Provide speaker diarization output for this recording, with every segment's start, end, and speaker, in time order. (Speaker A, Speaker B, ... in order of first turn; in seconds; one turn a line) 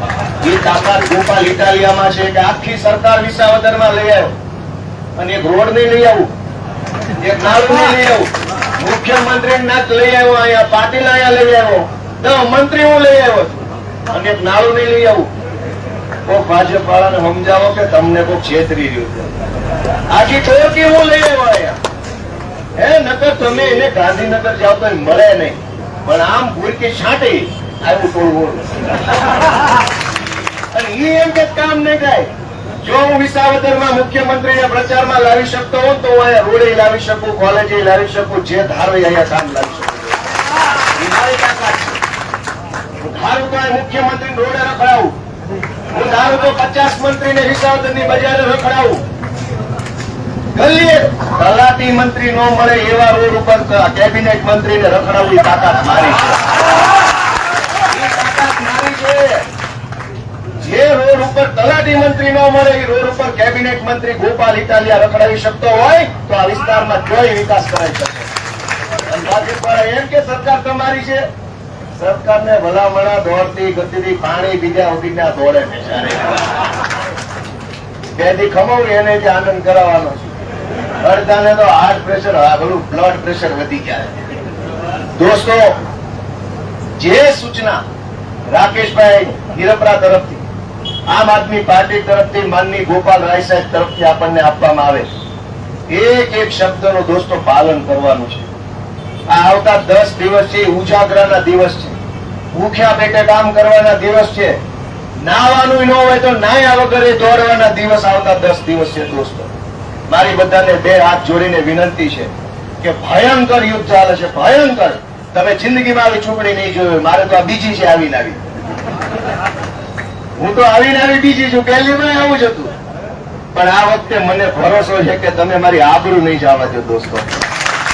Speaker A: 0.4-4.4
Speaker A: 5.2-6.3
Speaker A: 7.2-15.3
Speaker A: 16.3-19.3
Speaker A: 20.1-21.8
Speaker A: 22.8-28.7
Speaker A: 30.7-32.3
Speaker A: 32.8-40.2
Speaker A: 41.0-42.0
Speaker A: 43.0-45.1
Speaker A: 45.9-49.0
Speaker A: 50.5-56.5
Speaker A: 57.9-59.5
Speaker A: 60.6-68.3
Speaker A: 69.0-71.2
Speaker A: 72.0-76.4
Speaker A: 78.2-80.3
Speaker A: 81.0-84.2
Speaker A: 85.2-85.7
Speaker A: 87.0-87.8
Speaker A: 88.5-90.4
Speaker A: 91.1-95.1
Speaker A: 95.9-98.5
Speaker A: 99.3-102.0
Speaker A: 102.5-104.6
Speaker A: 105.2-109.5
Speaker A: 110.1-118.4
Speaker A: 120.4-122.7
Speaker A: 123.5-127.4